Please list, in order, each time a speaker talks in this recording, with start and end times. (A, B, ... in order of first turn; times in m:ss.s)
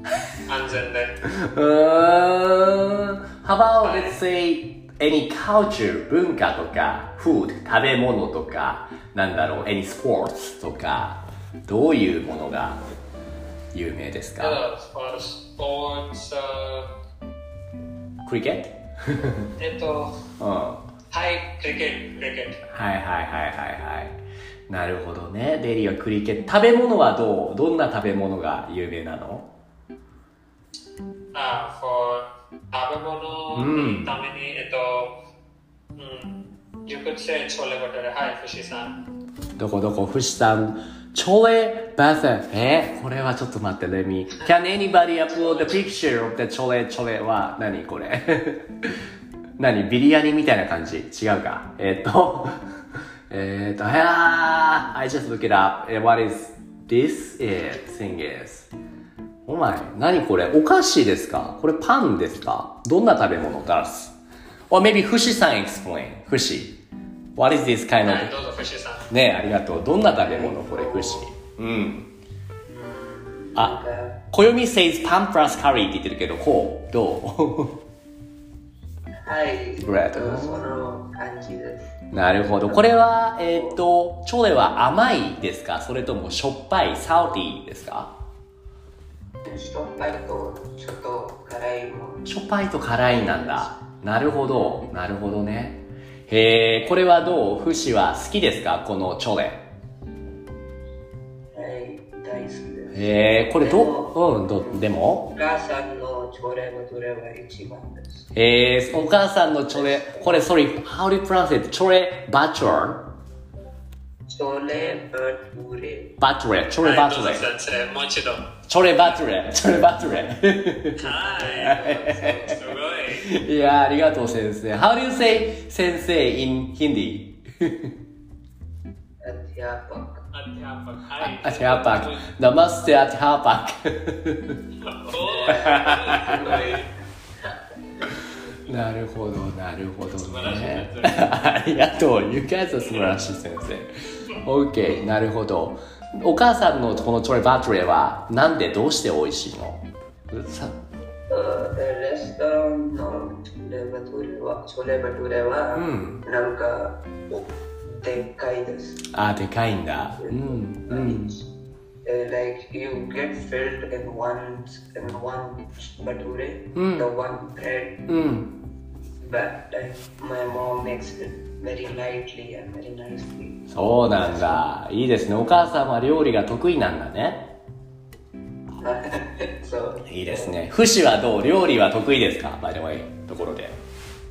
0:00.5-0:01.2 A
0:01.3-0:12.8 B
0:03.8-0:04.2 A
0:13.7-0:14.6 B
0:14.4-0:16.9 A
0:18.2-0:19.5 B
0:19.6-0:20.2 A
0:20.4-0:20.8 B
0:21.1-0:22.6 A
0:22.7-0:24.2 B
0:24.7-0:29.5 B
0:31.3-0:35.2 A
0:33.5-0:34.1 B
0:36.0-0:36.4 A
0:36.9-0:39.0 A
0:39.6-0:49.0 B
0:49.6-0:52.6 B
0:53.3-0:58.7 B
0:59.5-1:04.2 B
1:04.7-1:06.8 B
1:07.4-1:08.3 B
1:08.0-1:09.1 A
1:09.1-1:12.1 B
1:10.1-1:11.3 C
1:12.7-1:14.2 C
1:14.3-1:17.8 B
1:19.2-1:22.0 C
1:19.8-1:20.7 B
1:22.1-1:28.1 B
1:22.7-1:23.8 C
1:29.4-1:32.3 C
1:32.2-1:39.6 B
1:32.9-1:33.7 C
1:41.5-1:48.3 C
1:42.9-1:45.3 B
1:48.4-1:53.0 B
1:49.7-1:50.4 C
1:54.3-1:56.1 C
1:56.2-1:57.5 B
1:56.8-1:58.5 A
1:58.7-2:02.6 B
2:01.0-2:03.3 A
2:01.3-2:02.6 C
2:03.1-2:07.9 B
2:09.2-2:10.2 C
2:10.3-2:12.2 A
2:11.2-2:14.6 B
2:14.8-2:16.9 A
2:15.2-2:16.8 C
2:15.5-2:16.8 B
2:18.7-2:30.8 B
2:20.2-2:21.3 A
2:31.3-2:39.0 C
2:35.7-2:36.2 B
2:39.1-2:41.4 B
2:40.2-2:41.4 C
2:42.0-2:48.0 C
2:46.8-2:47.1 B
2:48.1-2:48.5 B
2:49.2-2:54.6 C
2:53.7-2:57.5 B
2:58.8-3:00.6 C
3:00.1-3:03.8 B